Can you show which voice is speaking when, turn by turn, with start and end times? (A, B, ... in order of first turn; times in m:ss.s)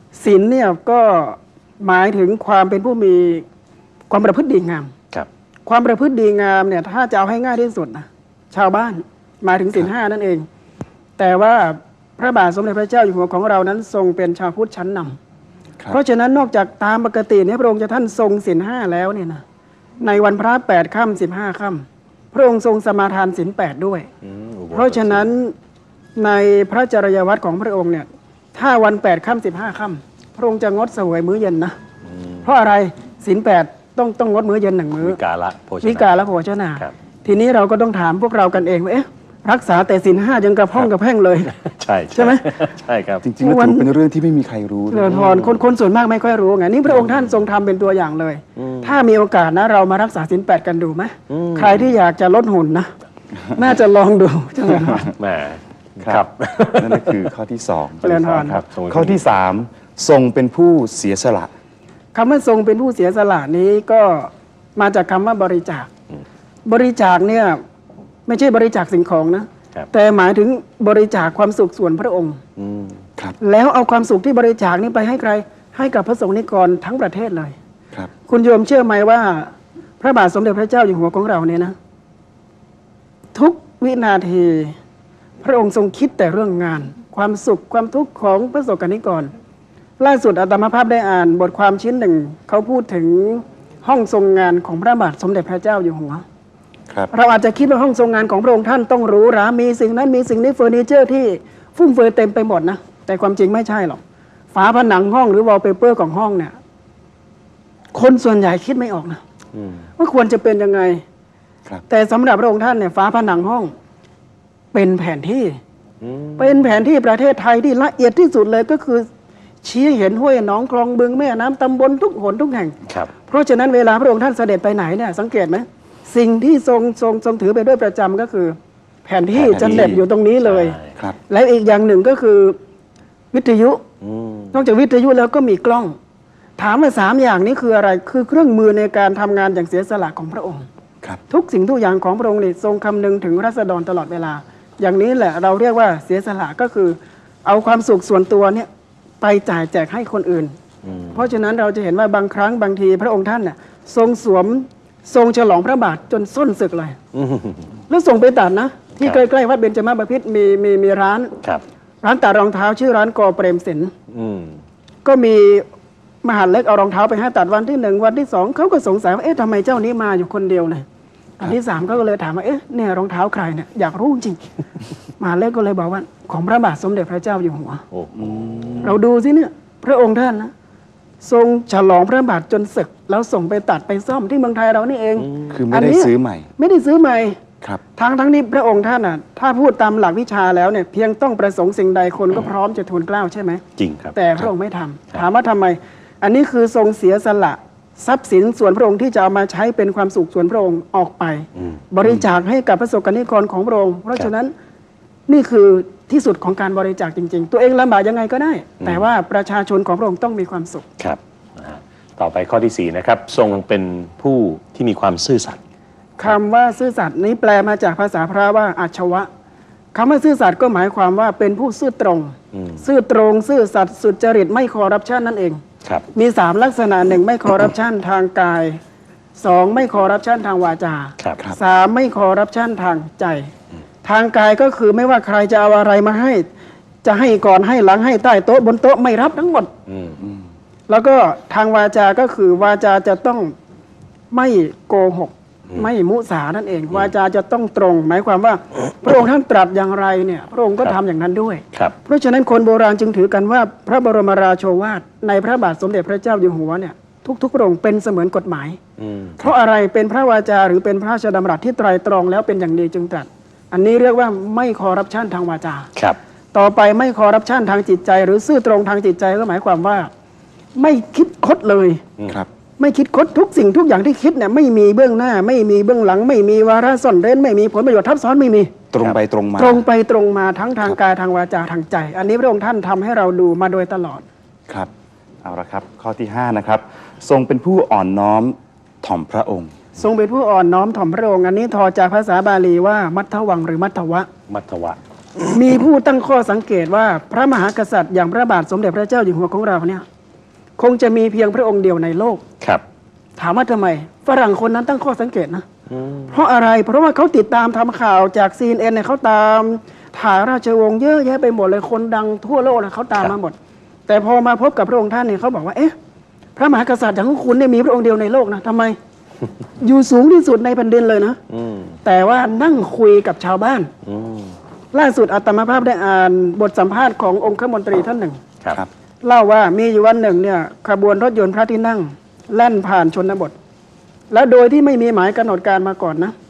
0:00.1-0:03.4 A
0:04.1-0:04.9 A
0:05.6-0:10.4 A
0:11.2-0:15.2 A
0:15.9-0:19.4 A
0:20.0-0:24.1 A
0:24.2-0:25.3 B
0:24.7-0:25.5 A
0:26.2-0:31.7 A
0:32.0-0:32.4 B
0:32.4-0:35.2 A
0:35.0-0:36.1 B
0:35.8-0:41.5 A
0:41.5-0:43.2 B
0:42.1-0:42.6 A
0:43.2-0:45.4 C
0:43.4-0:43.9 A
0:44.9-0:52.9 A
0:45.1-0:45.5 B
0:48.6-0:49.0 B
0:51.3-0:51.9 B
0:53.5-0:55.1 A
0:55.1-0:57.2 B
0:56.0-1:01.5 C
0:58.0-0:58.6 A
0:58.2-0:59.2 B
1:02.1-1:05.9 A
1:06.6-1:07.6 A
1:08.3-1:12.4 A
1:12.6-1:13.0 B
1:13.4-1:17.5 A
1:18.3-1:21.8 A
1:23.3-1:24.7 A
1:25.4-1:29.3 A
1:30.0-1:36.2 A
1:37.1-1:44.0 A
1:44.5-1:46.6 A
1:47.9-1:49.2 A
1:49.5-1:49.8 B
1:50.0-1:51.0 A
1:51.9-1:53.7 A
1:54.7-1:55.6 A
1:56.0-1:56.6 B
1:56.4-1:59.1 A
1:59.6-2:02.8 A
2:03.3-2:10.8 A
2:09.3-2:11.0 B
2:09.4-2:10.0 C
2:11.3-2:12.6 A
2:13.3-2:13.8 A
2:14.0-2:14.5 B
2:14.5-2:16.0 A
2:16.6-2:20.6 A
2:21.3-2:28.7 A
2:29.2-2:30.5 A
2:30.8-2:31.2 B
2:31.1-2:37.0 A
2:37.1-2:37.7 B
2:37.9-2:41.3 A
2:42.0-2:43.9 A
2:44.1-2:44.6 B
2:45.0-2:45.6 A
2:46.2-2:50.8 A
2:51.4-2:54.4 A
2:55.2-2:57.8 A
2:57.9-2:58.9 B
2:58.2-2:58.9 C
2:58.8-3:00.5 A
3:01.2-3:07.4 A
3:05.2-3:05.6 B
3:05.5-3:06.5 C
3:08.0-3:13.6 A
3:13.8-3:14.1 B
3:14.1-3:24.5 A
3:25.3-3:30.8 A
3:31.0-3:35.6 B
3:36.2-3:39.3 A
3:39.9-3:45.6 A
3:42.5-3:42.8 B
3:46.1-3:48.8 A
3:49.4-3:53.5 A
3:54.0-3:56.4 A
3:57.0-3:59.7 A
3:59.9-4:00.2 B
4:00.9-4:03.5 A
4:04.3-4:18.8 A
4:19.0-4:19.5 B
4:19.4-4:25.9 A
4:26.5-4:30.1 A
4:30.8-4:32.0 A
4:32.8-4:38.7 A
4:38.9-4:39.8 C
4:39.6-4:44.2 A
4:45.4-4:49.9 C
4:50.0-4:54.3 A
4:54.5-4:55.0 B
4:55.4-5:00.0 A
5:00.8-5:02.4 A
5:03.4-5:05.6 A
5:05.9-5:06.4 B
5:06.3-5:13.6 A
5:14.1-5:15.9 A
5:16.6-5:19.0 A
5:19.8-5:21.4 A
5:21.5-5:21.9 B
5:22.0-5:23.9 A
5:24.0-5:24.5 B
5:24.9-5:28.4 A
5:29.2-5:33.5 A
5:34.3-5:36.3 A